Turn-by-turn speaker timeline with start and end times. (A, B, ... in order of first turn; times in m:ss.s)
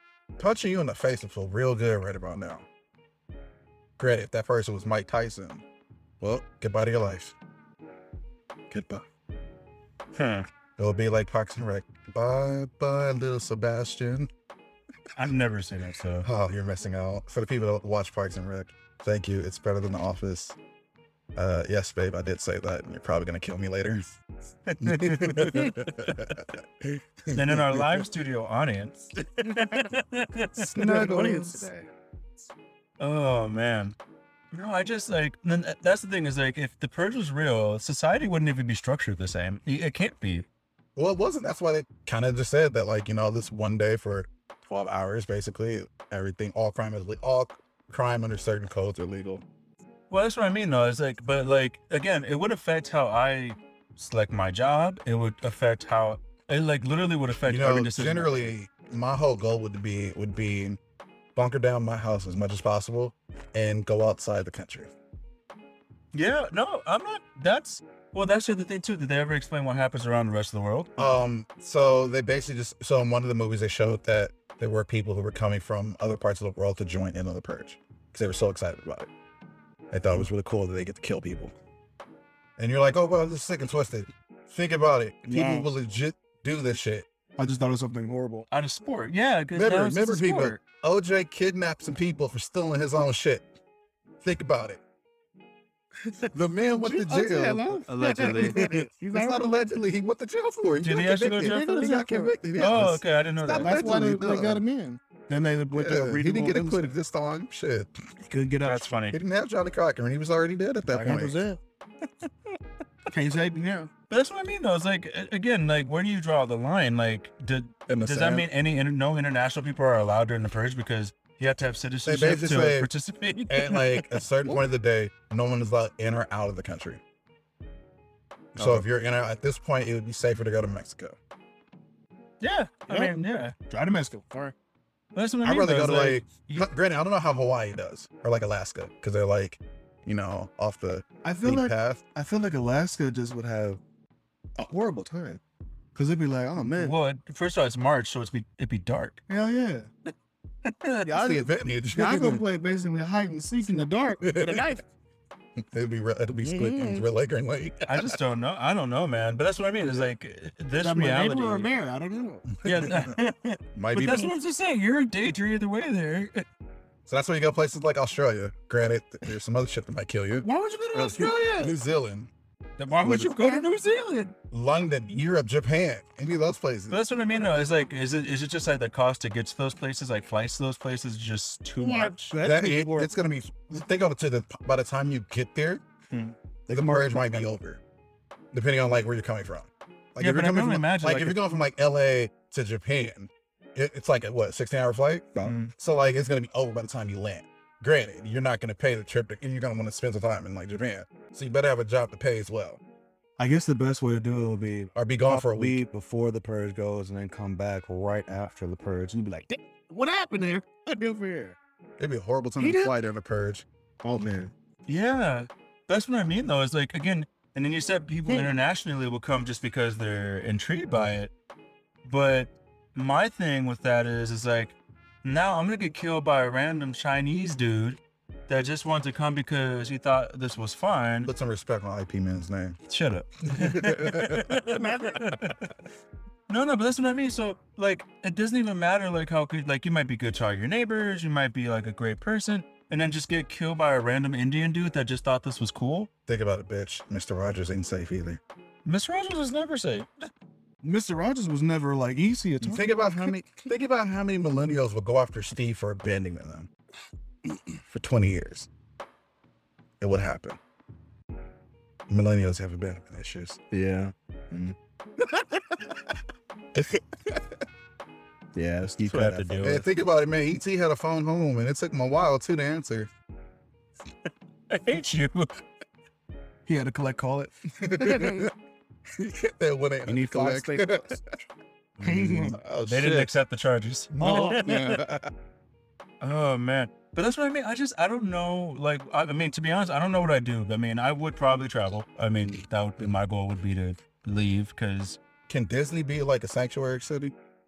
0:00.4-0:02.7 A
0:04.0-0:05.6 A
0:06.2-0:07.4 A
0:08.7-0:09.0 A
0:10.1-0:10.5 B
0:10.8-0:14.3 A
0:15.2-0:16.3 B
0:16.2-0:20.6 A
0:21.4-0:24.0 A
0:24.7-0:25.9 B
0:24.8-0:28.0 A
0:27.3-0:30.8 B
0:30.6-0:31.7 A
0:30.8-0:31.9 C
0:33.0-0:34.0 B
0:34.5-0:40.5 B
0:41.0-0:49.4 A
0:50.1-0:58.5 B
0:57.4-1:00.8 A
1:01.4-1:04.9 A
1:06.1-1:10.9 B
1:11.0-1:19.1 A
1:19.9-1:21.5 A
1:22.6-1:27.1 A
1:25.3-1:25.7 C
1:27.4-1:28.5 C
1:28.5-1:30.6 B
1:29.5-1:33.5 A
1:34.2-1:34.8 A
1:36.3-1:37.8 A
1:36.8-1:39.4 C
1:37.9-1:38.6 B
1:38.5-1:44.6 A
1:40.8-1:41.9 B
1:41.4-1:42.8 C
1:42.6-1:43.9 B
1:43.5-1:46.9 C
1:45.7-1:47.9 A
1:48.3-1:48.9 C
1:48.6-1:49.2 B
1:49.1-1:51.4 A
1:50.9-1:51.6 C
1:53.1-1:53.9 C
1:54.1-2:04.2 B
1:57.9-1:58.5 A
2:02.0-2:02.9 A
2:03.5-2:07.0 A
2:08.6-2:11.2 A
2:08.6-2:08.9 C
2:12.4-2:13.6 B
2:12.9-2:14.6 C
2:15.2-2:16.7 B
2:15.4-2:22.0 A
2:21.2-2:23.8 C
2:24.6-2:25.4 C
2:26.0-2:27.0 C
2:26.6-2:29.2 B
2:29.3-2:29.9 C
2:30.6-2:31.1 B
2:31.0-2:34.8 C
2:31.1-2:32.4 A
2:34.2-2:34.8 A
2:35.7-2:38.1 A
2:36.4-2:37.0 C
2:37.9-2:41.7 B
2:40.8-2:42.5 C
2:42.6-2:46.5 B
2:43.8-2:44.3 A
2:47.1-2:52.3 A
2:50.9-2:51.7 C
2:51.0-2:51.3 B
2:52.8-2:54.3 B
2:53.0-2:53.4 A
2:54.5-2:57.0 A
2:56.9-3:02.4 B
3:01.8-3:03.1 C
3:02.4-3:05.8 A
3:06.7-3:07.3 C
3:06.7-3:07.8 A
3:08.5-3:22.8 A
3:10.2-3:11.4 B
3:15.4-3:15.7 B
3:23.4-3:31.6 C
3:25.0-3:25.8 A
3:32.0-3:33.7 A
3:32.6-3:32.9 C
3:34.0-3:34.5 C
3:34.9-3:41.3 B
3:42.0-3:51.3 B
3:51.2-3:52.8 A
3:52.9-3:55.7 B
3:53.5-3:54.6 A
3:56.5-4:06.1 B
4:06.3-4:08.4 A
4:08.8-4:10.3 B
4:10.8-4:13.3 C
4:12.6-4:16.7 A
4:17.9-4:18.7 A
4:20.0-4:20.6 A
4:22.1-4:23.6 A
4:23.7-4:24.8 C
4:26.8-4:27.6 A
4:28.6-4:29.6 C
4:29.0-4:29.9 B
4:29.6-4:33.1 A
4:34.7-4:35.6 B
4:36.7-4:38.5 C
4:37.8-4:38.5 A
4:39.2-4:41.2 A
4:40.1-4:41.1 C
4:42.0-4:42.6 C
4:42.0-4:43.4 A
4:42.8-4:44.8 B
4:44.1-4:45.3 A
4:44.2-4:45.0 C
4:46.2-4:55.2 B
4:55.5-4:57.4 A